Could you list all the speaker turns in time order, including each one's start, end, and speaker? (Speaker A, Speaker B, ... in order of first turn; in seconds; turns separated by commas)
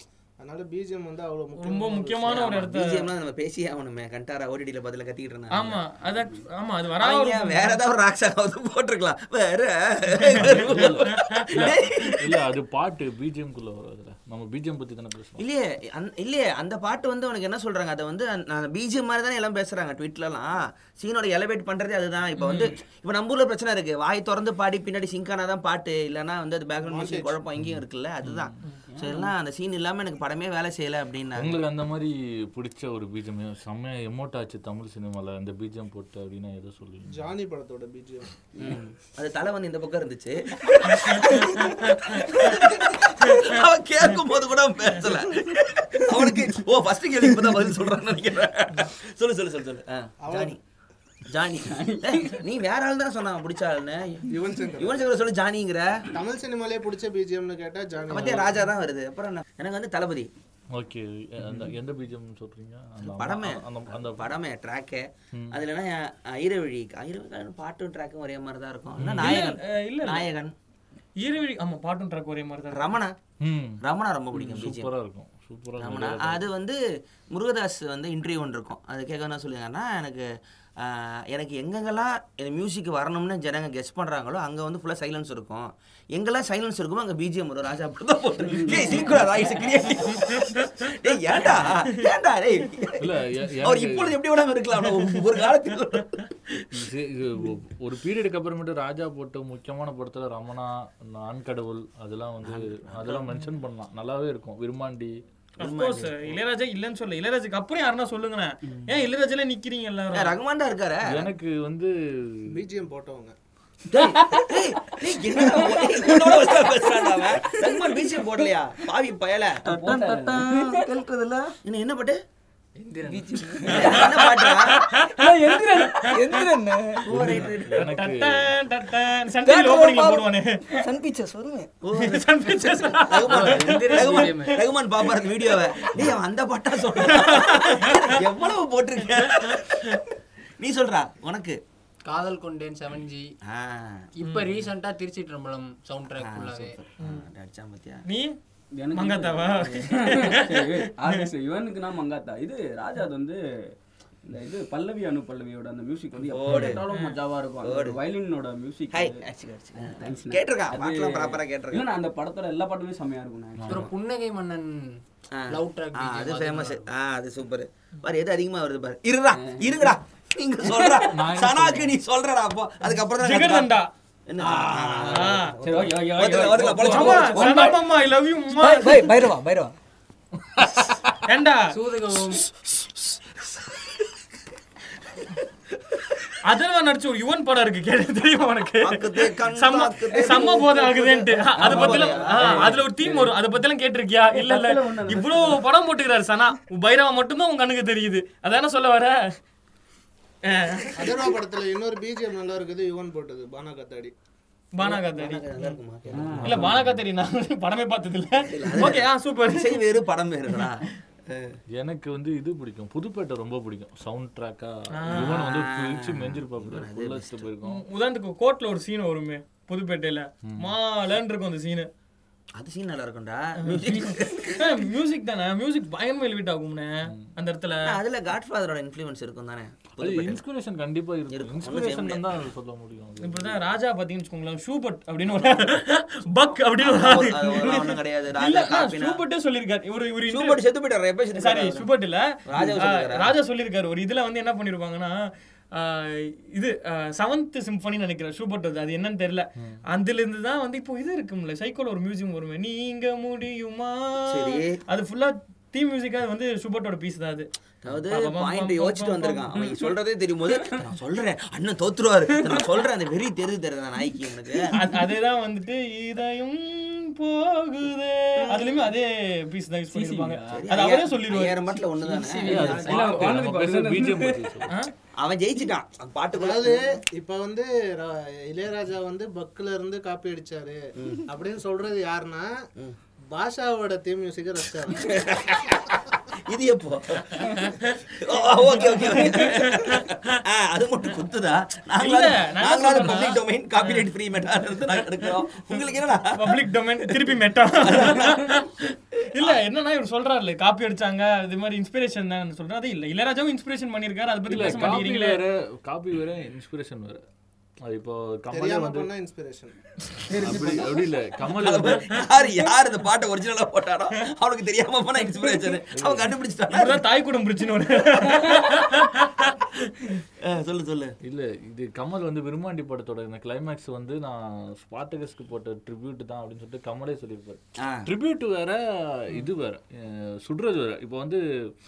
Speaker A: 0.4-2.6, Speaker B: 1.6-3.1, Speaker C: 2.3-5.7, Speaker B: 5.5-7.8, Speaker C: 7.0-12.4, Speaker B: 10.2-11.5, Speaker D: 10.3-15.4, Speaker C: 15.4-31.6, Speaker A: 26.8-27.4, Speaker D: 27.6-28.5, Speaker E: 28.9-29.3, Speaker D: 31.4-37.3, Speaker A: 37.1-38.8, Speaker C: 38.6-50.6, Speaker B: 41.0-42.5, Speaker B: 43.2-43.6, Speaker A: 50.2-50.6, Speaker C: 51.3-56.1, Speaker E: 51.6-52.4, Speaker A: 54.3-55.1, Speaker A: 56.1-58.6, Speaker C: 58.1-60.3, Speaker D: 60.7-64.3, Speaker C: 63.0-70.5, Speaker D: 65.3-65.6, Speaker D: 69.0-69.3, Speaker B: 69.2-70.3, Speaker B: 71.2-72.9, Speaker C: 72.7-73.2, Speaker D: 73.4-73.8, Speaker C: 73.8-74.9, Speaker D: 74.3-76.4, Speaker C: 75.8-76.8, Speaker C: 77.3-96.7, Speaker E: 88.6-89.1, Speaker D: 93.0-94.2, Speaker D: 96.7-105.2, Speaker C: 102.4-103.3, Speaker C: 105.6-106.1, Speaker B: 105.6-110.4, Speaker C: 110.1-111.3, Speaker D: 111.1-112.6, Speaker A: 112.5-113.3, Speaker C: 113.9-119.6, Speaker E: 114.0-114.5, Speaker E: 115.3-117.5, Speaker E: 119.7-120.7, Speaker F: 119.7-121.5, Speaker C: 121.6-122.2, Speaker G: 122.8-124.1, Speaker F: 123.0-124.0, Speaker C: 123.7-124.8, Speaker B: 123.7-126.5, Speaker F: 125.2-127.1, Speaker E: 125.5-126.1, Speaker C: 127.1-127.9, Speaker D: 127.2-128.5, Speaker B: 127.8-130.6, Speaker F: 129.4-131.7, Speaker C: 131.8-140.0, Speaker B: 131.9-134.6, Speaker G: 133.2-134.6, Speaker B: 137.0-138.2, Speaker B: 139.2-140.0, Speaker C: 140.6-141.6, Speaker G: 142.1-143.3, Speaker C: 143.4-144.1, Speaker G: 144.2-146.8, Speaker B: 144.2-144.6, Speaker C: 146.2-148.0, Speaker B: 148.1-148.3, Speaker E: 148.8-153.4, Speaker B: 148.9-151.2, Speaker E: 154.2-159.2, Speaker C: 156.2-156.8, Speaker D: 156.5-156.8, Speaker B: 156.9-157.2, Speaker C: 157.6-158.0, Speaker C: 158.9-161.8, Speaker E: 159.8-163.9, Speaker G: 163.7-164.9, Speaker C: 165.3-173.7, Speaker G: 165.5-166.9, Speaker E: 169.4-169.9, Speaker E: 170.6-171.0, Speaker D: 171.1-171.9, Speaker B: 173.2-173.9, Speaker C: 174.3-177.6, Speaker E: 174.6-175.0, Speaker B: 175.1-175.5, Speaker E: 175.6-177.6, Speaker B: 176.8-179.1, Speaker F: 177.2-177.8, Speaker F: 178.5-179.7, Speaker B: 181.2-181.7, Speaker G: 181.7-182.4, Speaker B: 186.4-199.3, Speaker C: 188.8-192.8, Speaker E: 191.6-193.3, Speaker E: 194.3-195.6, Speaker B: 200.4-201.3, Speaker A: 200.9-204.1, Speaker B: 204.8-205.4, Speaker C: 204.8-206.6, Speaker E: 206.1-206.7, Speaker D: 206.3-207.0, Speaker B: 206.4-209.8, Speaker C: 208.4-211.6, Speaker D: 211.7-217.8, Speaker B: 214.9-215.4, Speaker C: 215.1-217.5, Speaker B: 217.6-221.9, Speaker D: 220.4-220.7, Speaker C: 222.6-224.7, Speaker B: 223.6-228.0, Speaker C: 227.8-230.4, Speaker D: 230.0-233.7, Speaker C: 231.3-232.2, Speaker B: 233.2-240.6, Speaker C: 236.8-239.2, Speaker C: 240.3-241.9, Speaker B: 241.3-245.2, Speaker C: 242.4-243.3, Speaker B: 245.7-257.5, Speaker C: 254.3-254.8, Speaker C: 257.8-264.7, Speaker B: 258.1-259.5, Speaker E: 259.6-259.9, Speaker E: 260.5-260.8, Speaker B: 264.7-271.7, Speaker C: 268.4-268.9, Speaker E: 269.9-270.6, Speaker C: 270.5-272.9, Speaker G: 272.1-273.1, Speaker E: 272.3-274.6, Speaker D: 272.5-274.8, Speaker C: 275.2-276.9, Speaker A: 276.3-282.5, Speaker C: 281.0-281.2, Speaker A: 283.3-285.2, Speaker C: 284.9-296.6, Speaker B: 289.1-290.1, Speaker B: 292.0-294.1, Speaker B: 295.4-305.4, Speaker C: 297.8-298.5, Speaker C: 299.3-299.6, Speaker D: 304.5-307.2, Speaker D: 307.8-309.1, Speaker A: 308.5-309.8, Speaker E: 310.3-311.0, Speaker D: 310.4-312.1, Speaker C: 311.4-317.0, Speaker D: 315.9-316.3, Speaker B: 316.7-320.2, Speaker C: 320.4-321.1, Speaker D: 321.2-331.4, Speaker C: 327.8-328.1